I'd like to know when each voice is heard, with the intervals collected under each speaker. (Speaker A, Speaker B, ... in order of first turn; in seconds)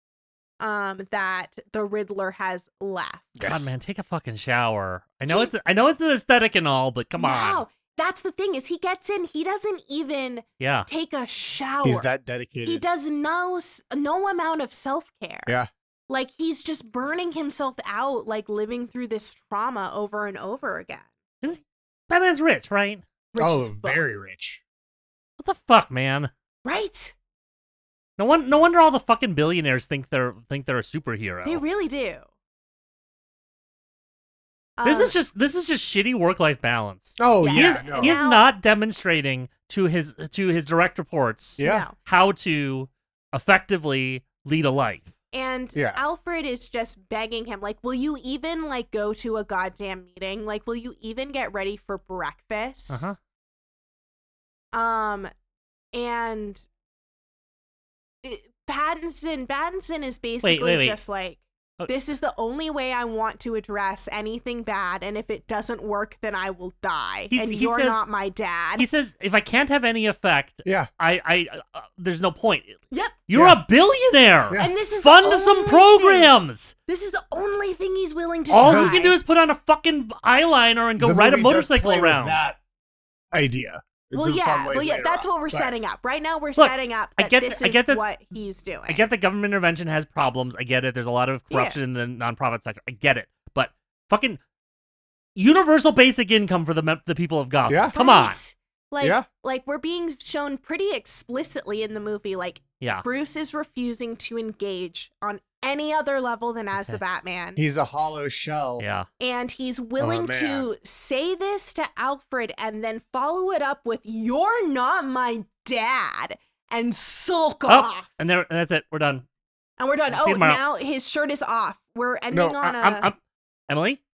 Speaker A: 0.6-3.4, 5.3-5.5, 7.2-12.1, 12.7-15.6, 16.1-21.1, 23.3-24.1, 26.6-27.2, 31.4-32.2, 34.8-35.2, 37.4-38.5, 41.6-42.0, 45.3-53.1, 54.7-55.3, 55.9-56.6, 58.2-68.9, 72.9-73.2, 74.6-76.3, 76.9-79.2, 84.1-89.0, 91.5-91.8, 97.9-107.6, 109.2-118.2, 119.8-123.1
Speaker B: 3.4-3.8, 11.8-12.8, 23.4-24.6, 37.2-38.2, 41.6-41.9, 45.7-46.0, 73.3-73.6, 78.6-79.0, 81.0-82.6, 83.3-85.7, 97.7-98.0, 99.0-99.3, 107.6-108.8, 110.0-110.7, 122.3-122.6
Speaker C: 3.4-7.6, 10.6-10.9, 21.4-23.0, 25.4-26.3, 28.2-31.6, 34.8-45.1, 52.9-53.2, 60.4-61.0, 67.3-68.0, 68.8-76.7, 78.5-82.4, 86.6-88.0, 88.9-94.4, 95.4-98.4, 102.8-103.1, 106.7-107.0, 108.8-109.1, 117.7-119.2, 120.1-120.6, 122.6-123.2, 123.7-124.0